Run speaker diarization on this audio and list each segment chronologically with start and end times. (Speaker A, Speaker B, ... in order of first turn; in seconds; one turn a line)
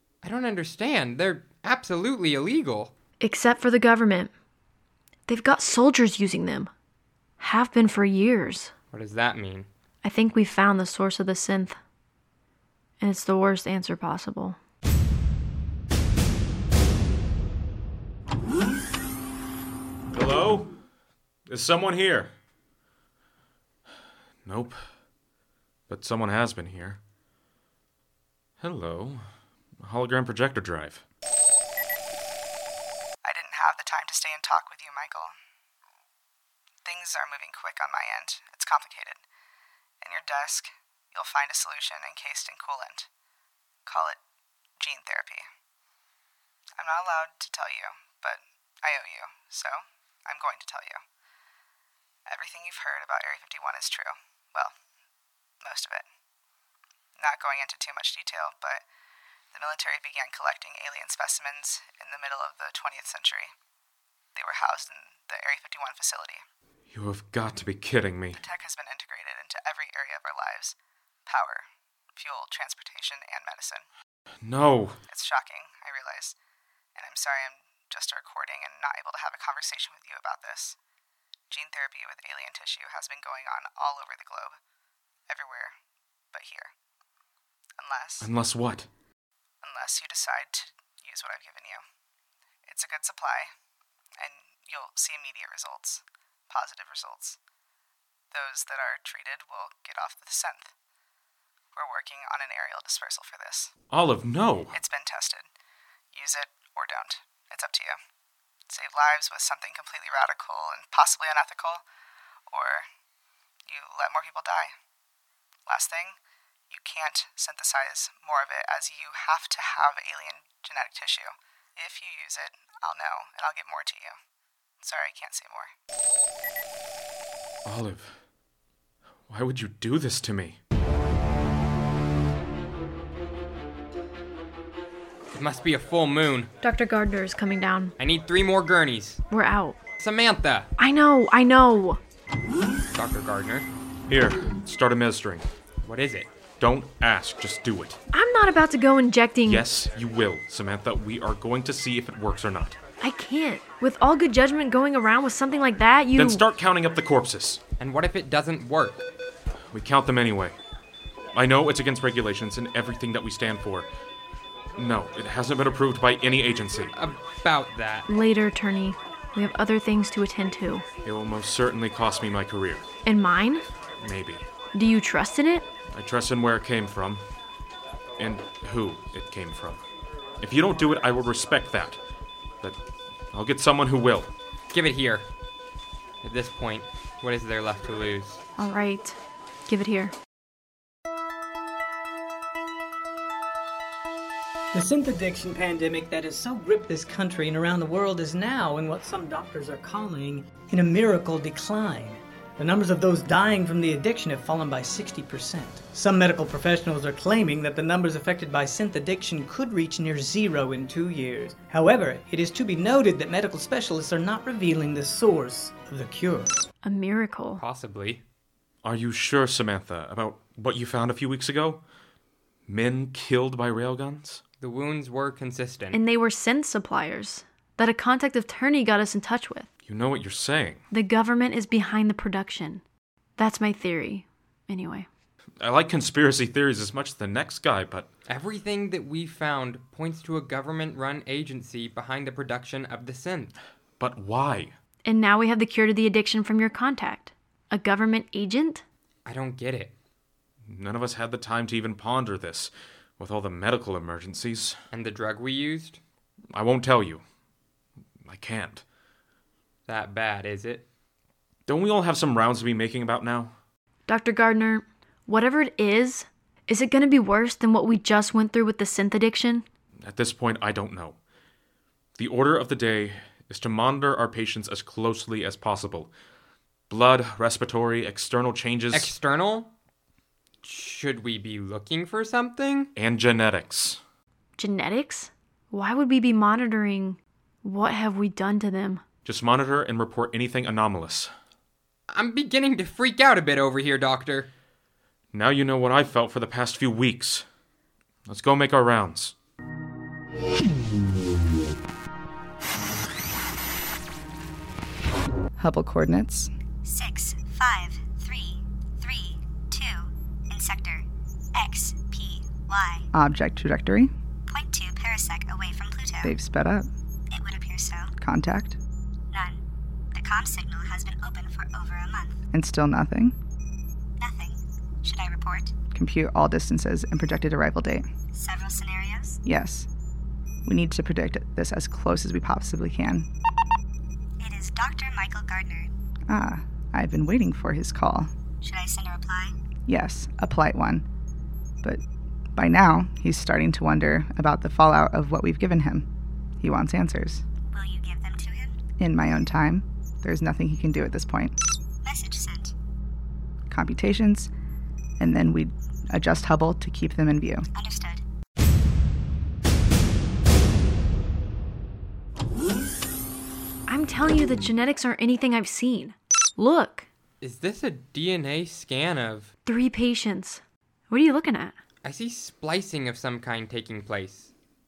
Speaker A: 0.2-2.9
Speaker B: 3.2-4.3
Speaker B: 5.3-6.7
Speaker B: 7.4-8.7
Speaker A: 8.9-9.7
Speaker B: 10.0-11.8
Speaker B: 13.0-14.6
Speaker C: 20.1-20.8
Speaker C: 21.5-22.3
Speaker C: 24.4-24.8
Speaker C: 25.9-27.0
Speaker C: 28.6-29.2
Speaker C: 29.8-31.0
Speaker D: 33.2-35.3
Speaker D: 36.8-39.2
Speaker D: 40.0-43.1
Speaker D: 43.9-44.2
Speaker D: 44.8-45.5
Speaker D: 46.8-51.0
Speaker D: 52.2-54.7
Speaker D: 55.6-56.1
Speaker D: 57.2-58.8
Speaker D: 59.5-63.5
Speaker D: 64.3-66.4
Speaker C: 66.9-68.4
Speaker D: 68.3-73.8
Speaker C: 74.4-75.0
Speaker D: 75.1-76.3
Speaker D: 77.0-80.8
Speaker D: 81.5-84.6
Speaker D: 85.3-85.8
Speaker D: 86.3-86.7
Speaker D: 87.8-88.3
Speaker C: 88.2-88.9
Speaker D: 89.6-91.8
Speaker D: 92.7-93.5
Speaker D: 94.2-97.4
Speaker D: 98.3-100.7
Speaker D: 101.7-103.7
Speaker C: 103.9-104.8
Speaker D: 104.7-105.5
Speaker D: 106.1-108.0
Speaker D: 108.7-111.8
Speaker D: 112.5-112.9
Speaker D: 113.7-114.7
Speaker D: 115.7-116.2
Speaker D: 116.7-124.2
Speaker D: 124.8-125.7
Speaker C: 127.6-128.2
Speaker C: 129.3-130.6
Speaker A: 135.3-136.5
Speaker B: 136.6-137.9
Speaker A: 138.0-139.2
Speaker B: 139.3-139.8
Speaker A: 140.0-140.7
Speaker B: 140.8-142.0
Speaker A: 142.9-143.7
Speaker C: 144.1-145.5
Speaker A: 145.8-146.3
Speaker C: 146.6-148.0
Speaker B: 148.1-149.6
Speaker C: 149.4-152.8
Speaker B: 153.0-156.4
Speaker C: 156.2-157.6
Speaker A: 157.8-159.0
Speaker C: 159.7-160.6
Speaker C: 161.3-163.9
Speaker C: 164.8-166.9
Speaker A: 166.9-168.1
Speaker B: 168.1-170.8
Speaker C: 171.0-172.8
Speaker B: 173.0-173.6
Speaker C: 174.0-174.4
Speaker B: 174.7-175.7
Speaker C: 175.9-177.2
Speaker C: 178.2-179.8
Speaker C: 180.4-182.0
Speaker C: 183.3-184.3
Speaker A: 184.7-185.2
Speaker A: 186.2-188.4
Speaker B: 188.6-190.1
Speaker E: 194.7-216.5
Speaker B: 216.8-217.6
Speaker A: 217.6-218.2
Speaker C: 218.8-221.8
Speaker C: 222.7-224.4
Speaker A: 224.6-226.0
Speaker B: 225.9-229.7
Speaker C: 229.8-230.8
Speaker B: 230.9-232.8
Speaker B: 233.4-235.1
Speaker C: 235.6-238.1
Speaker A: 238.3-243.5
Speaker C: 244.0-244.7
Speaker B: 245.0-248.8
Speaker A: 249.2-249.9
Speaker C: 250.7-254.8
Speaker A: 254.9-256.0
Speaker C: 256.5-257.2
Speaker C: 258.2-258.8
Speaker A: 259.9-260.8
Speaker C: 261.7-263.5
Speaker B: 264.1-269.6
Speaker C: 270.0-271.2
Speaker C: 272.1-276.1
Speaker C: 276.9-279.1
Speaker A: 278.9-279.7
Speaker A: 280.6-282.9
Speaker C: 282.9-284.0
Speaker B: 284.6-289.0
Speaker C: 289.2-291.3
Speaker A: 292.1-294.5
Speaker C: 295.3-297.4
Speaker C: 298.2-299.3
Speaker D: 305.6-306.5
Speaker F: 306.8-313.1
Speaker D: 313.1-314.1
Speaker F: 314.5-316.4
Speaker D: 316.2-316.9
Speaker F: 317.3-318.1
Speaker D: 318.2-318.8
Speaker F: 319.3-319.6
Speaker F: 320.1-322.4
Speaker D: 322.5-323.4
Speaker F: 324.2-325.7
Speaker D: 325.9-328.1
Speaker F: 328.3-329.4
Speaker D: 329.4-329.9
Speaker D: 330.6-333.3
Speaker F: 334.4-335.9
Speaker D: 336.3-338.3
Speaker F: 338.6-339.5
Speaker D: 339.9-341.0
Speaker D: 342.6-346.1
Speaker D: 346.6-347.4
Speaker F: 347.7-348.8
Speaker D: 349.0-351.5
Speaker F: 352.0-352.7
Speaker D: 353.7-354.5
Speaker D: 355.2-357.7
Speaker F: 357.7-358.2
Speaker B: 363.9-367.1
Speaker A: 367.4-369.5
Speaker B: 369.6-371.8
Speaker A: 372.0-374.5